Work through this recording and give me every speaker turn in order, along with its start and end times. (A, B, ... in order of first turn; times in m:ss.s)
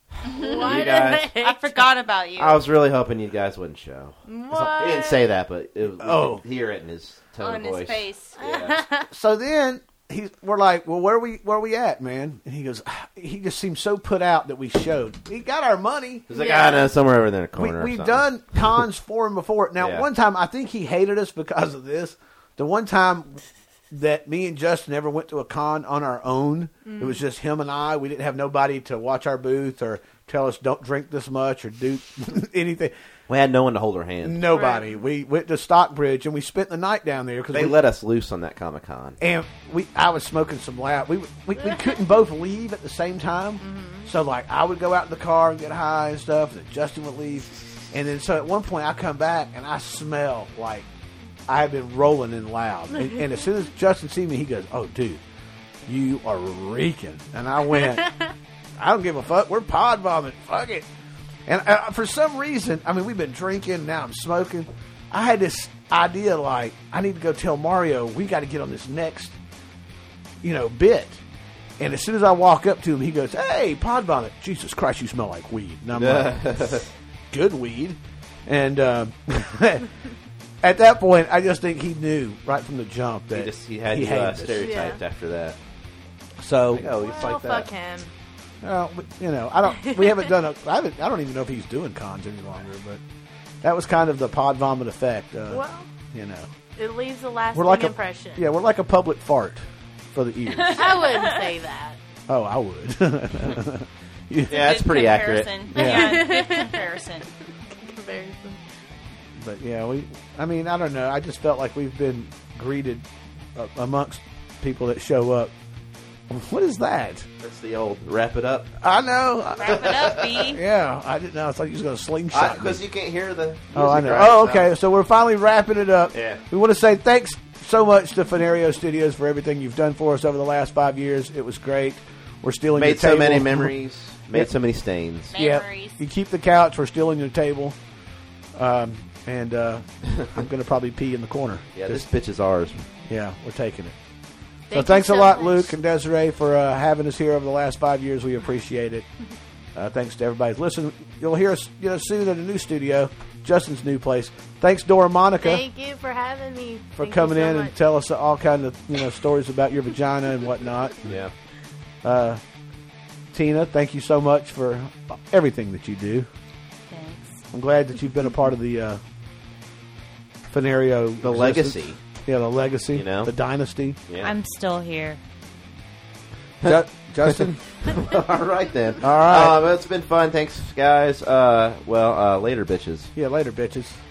0:00.2-0:02.6 A
0:00.3-0:01.8 B
0:00.4-0:01.3 C
0:02.4-0:08.8 C
0:04.3-0:05.3 B
0:06.0-0:06.4 D
0:07.4-0:08.4 A
0:08.4-0:09.1 B
0:09.1-0:16.2 D
0:16.3-0:18.8 C
0:16.3-0:16.9 B
0:17.6-0:32.9 D
0:19.8-0:20.0 C
0:26.8-0:27.2 B
0:33.3-0:34.5 C
0:34.2-0:37.8 D
0:34.5-0:35.0 B
0:37.5-0:39.2 C
0:39.2-0:50.9 D
0:41.6-0:42.0 B
0:43.6-0:44.1 B
0:51.5-0:55.2 D
0:55.9-0:58.1 D
0:57.7-0:58.3 B
0:58.8-1:00.8 D
1:01.5-1:09.4 D
1:10.4-1:11.2 D
1:11.8-1:16.4 D
1:15.9-1:16.9 C
1:17.3-1:19.9 D
1:20.6-1:24.9 D
1:23.3-1:25.6 C
1:24.6-1:25.0 B
1:26.4-1:26.9 D
1:26.7-1:27.7 C
1:26.9-1:28.1 B
1:28.6-1:33.0 D
1:29.8-1:30.3 B
1:33.6-1:36.5 D
1:35.5-1:35.9 B
1:36.8-1:38.4 B
1:37.5-1:39.6 D
1:40.1-1:40.9 D
1:40.5-1:41.5 A
1:40.7-1:42.0 B
1:42.3-1:44.7 D
1:44.5-1:45.5 C
1:44.5-1:47.3 A
1:45.7-1:46.2 D
1:45.7-1:46.9 B
1:47.7-1:48.6 B
1:49.4-1:55.5 D
1:56.3-1:57.2 D
1:57.4-1:58.7 C
1:58.8-1:59.8 D
1:59.5-2:00.6 A
1:59.6-2:00.3 C
2:00.5-2:02.8 D
2:02.3-2:04.7 C
2:03.7-2:13.7 D
2:06.1-2:06.4 C
2:12.7-2:15.3 C
2:15.3-2:16.0 A
2:15.3-2:17.8 D
2:18.5-2:22.0 D
2:21.7-2:22.8 C
2:23.1-2:23.9 D
2:24.7-2:25.7 B
2:24.7-2:29.0 D
2:29.7-2:35.6 D
2:35.4-2:37.7 B
2:37.0-2:41.1 D
2:41.0-2:41.3 C
2:42.0-2:42.4 D
2:43.3-2:46.3 D
2:46.9-2:47.4 A
2:47.5-2:49.0 D
2:50.5-2:54.0 D
2:51.2-2:52.0 C
2:52.9-2:53.3 C
2:54.1-2:54.3 C
2:54.2-2:55.2 A
2:56.6-3:03.1 C
2:56.6-2:57.6 D
2:59.0-2:59.6 D
3:03.2-3:04.0 D